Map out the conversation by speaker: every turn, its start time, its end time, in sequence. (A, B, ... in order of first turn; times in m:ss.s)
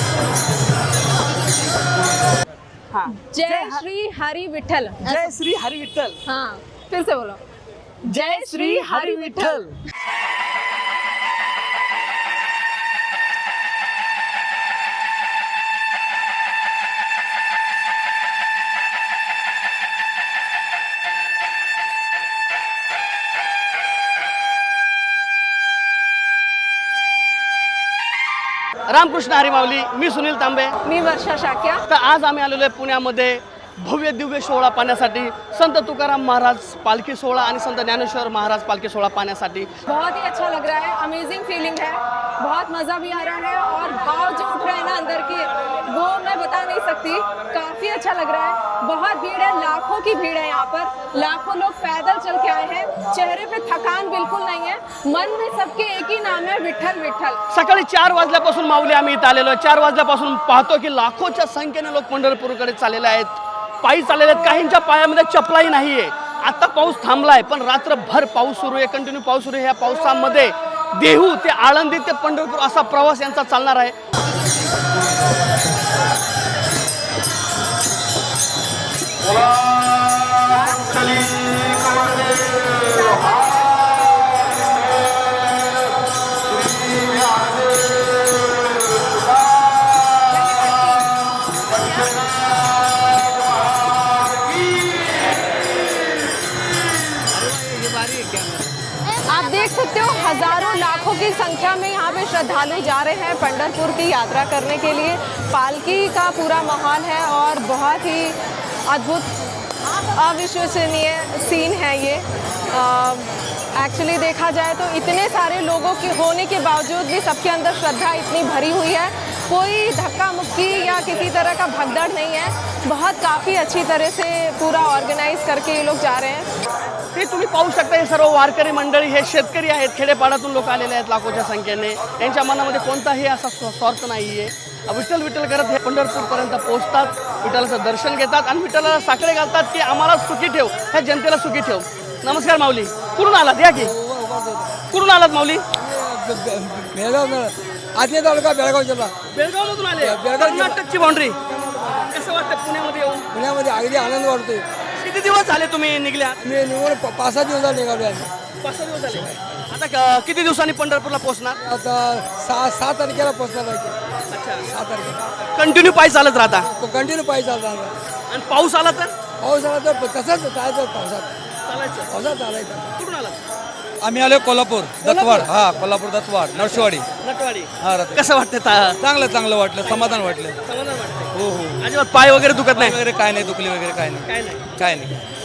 0:02.9-0:03.8 A
0:03.2-0:05.2 B
0:05.0-0:06.2 A
0:06.2-0:07.4 B
0:08.0-0:09.6 B
0:08.1-0:09.7 A
0:28.9-0:30.7 A
0:30.8-0:31.8 B
0:31.9-0:39.7 A
0:39.8-0:57.4 B
0:57.5-1:14.0 A
1:30.5-1:31.0 B
1:39.2-1:49.3 B
1:50.0-2:06.5 B
2:00.9-2:01.2 A
2:07.1-2:23.9 A
2:23.8-2:24.8 C
2:24.9-2:25.6 A
2:25.8-2:29.1 C
2:29.3-2:31.4 A
2:30.0-2:30.8 C
2:31.4-2:32.1 C
2:32.1-2:33.2 A
2:33.3-2:34.6 C
2:35.0-2:36.4 A
2:36.4-2:38.3 C
2:38.6-2:41.6 A
2:41.6-2:44.0 C
2:44.3-2:44.7 A
2:44.7-2:45.2 C
2:45.6-2:46.7 A
2:46.6-2:47.9 C
2:48.3-2:49.1 A
2:49.4-2:51.3 C
2:51.6-2:52.1 A
2:52.1-2:52.9 C
2:53.0-2:53.4 A
2:54.0-2:57.0 D
2:55.0-2:55.6 A
2:56.5-2:59.0 A
2:57.8-2:58.2 D
2:59.0-3:00.6 D
2:59.8-3:03.0 A
3:01.3-3:01.8 D
3:02.7-3:05.2 D
3:04.2-3:04.7 A